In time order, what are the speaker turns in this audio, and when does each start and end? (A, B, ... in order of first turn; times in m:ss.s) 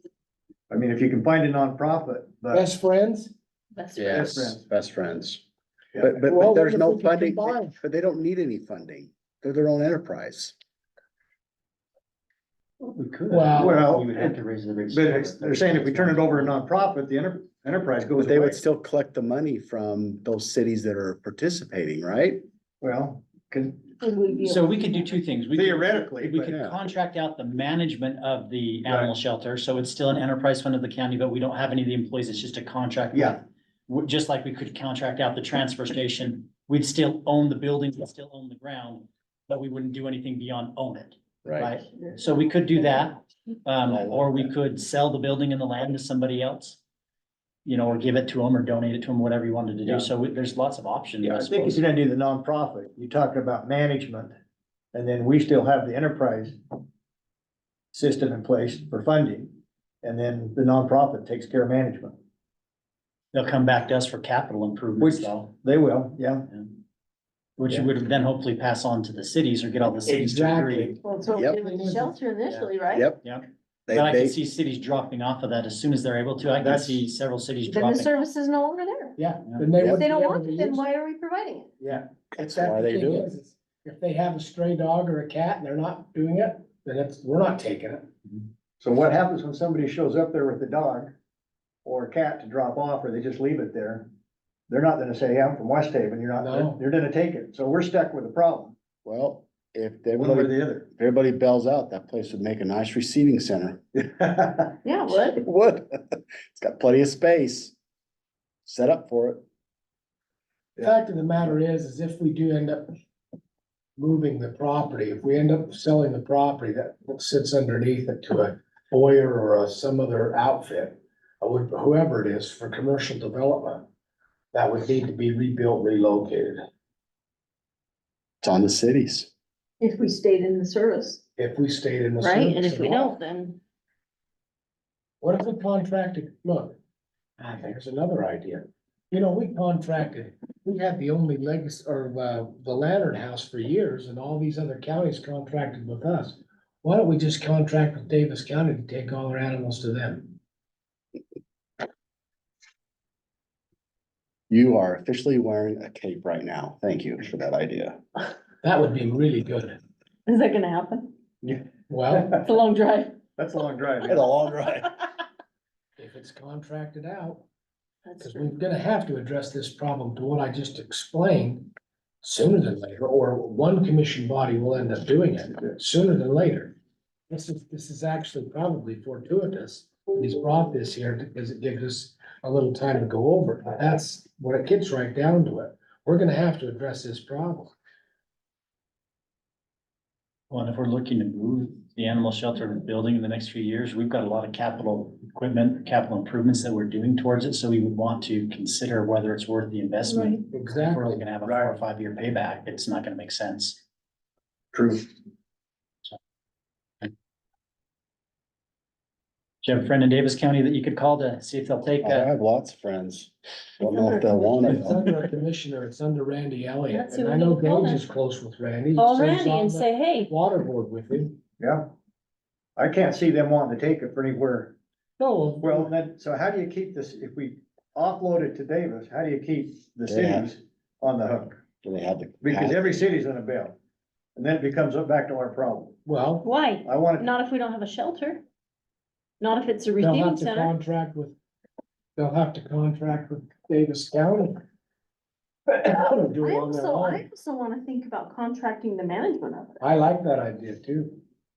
0:00.7-0:02.6 A
0:02.5-0:03.3 B
0:03.7-0:04.3 C
0:04.0-0:05.4 D
0:04.1-0:04.6 A
0:06.0-0:10.6 D
0:06.2-0:07.7 B
0:12.8-0:16.6 E
0:13.3-0:13.8 B
0:13.5-0:14.4 A
0:14.9-0:18.6 A
0:18.2-0:22.4 D
0:22.8-0:23.8 A
0:24.0-0:25.1 C
0:24.4-0:46.8 E
0:25.5-0:26.5 A
0:26.4-0:26.8 D
0:33.1-0:33.4 A
0:41.4-0:41.7 D
0:41.7-0:43.1 C
0:43.8-0:44.5 D
0:47.6-0:51.8 E
0:51.2-0:54.3 A
0:54.9-0:56.6 A
0:57.9-1:02.2 A
1:03.3-1:05.5 E
1:05.0-1:06.5 A
1:07.6-1:10.9 E
1:10.0-1:12.2 B
1:11.0-1:13.1 C
1:11.3-1:11.6 D
1:12.4-1:18.2 E
1:12.9-1:13.2 D
1:13.9-1:14.4 D
1:16.5-1:17.0 A
1:17.6-1:19.2 C
1:19.2-1:20.9 B
1:19.9-1:21.7 C
1:21.8-1:28.1 B
1:22.3-1:23.3 D
1:28.8-1:31.1 A
1:31.8-1:34.1 A
1:34.7-1:38.8 A
1:36.4-1:36.8 B
1:39.0-1:43.8 D
1:40.1-1:40.9 A
1:44.0-1:44.7 A
1:44.8-1:45.4 C
1:45.1-1:47.7 D
1:48.6-1:49.4 D
1:50.8-1:52.9 B
1:54.0-2:03.8 B
2:04.5-2:06.6 B
2:08.4-2:09.3 D
2:09.8-2:11.2 C
2:11.4-2:13.2 B
2:12.2-2:13.6 C
2:15.2-2:16.8 B
2:17.4-2:30.4 B
2:34.5-2:38.0 D
2:38.6-2:39.8 B
2:40.3-2:41.2 C
2:41.4-2:42.4 B
2:42.2-2:43.2 C
2:43.4-2:44.2 A
2:44.1-2:45.0 D
2:46.0-2:47.4 B
2:48.0-2:48.5 C
2:48.2-2:51.7 B
2:52.2-2:56.7 B
2:57.3-3:07.7 B
3:10.5-3:23.8 E
3:20.0-3:20.4 C
3:20.5-3:21.3 B
3:21.4-3:21.8 A
3:24.7-3:25.1 A
3:29.6-3:32.3 E
3:32.0-3:35.0 D
3:33.8-3:34.7 C
3:34.5-3:41.4 B
3:36.9-3:38.0 C
3:39.0-3:40.3 C
3:41.6-3:41.9 A
3:42.8-3:44.7 A
3:45.2-3:45.9 B
3:45.6-3:51.6 A
3:50.1-3:50.5 D
3:51.8-3:52.8 D
3:52.4-3:53.8 A
3:54.4-3:56.0 A
3:56.0-3:56.5 B
3:56.4-3:58.4 C
3:56.8-3:57.3 A
3:59.4-4:00.7 C
4:00.0-4:01.4 B
4:02.2-4:04.6 B
4:05.7-4:07.3 B
4:05.8-4:09.8 C
4:09.8-4:11.2 B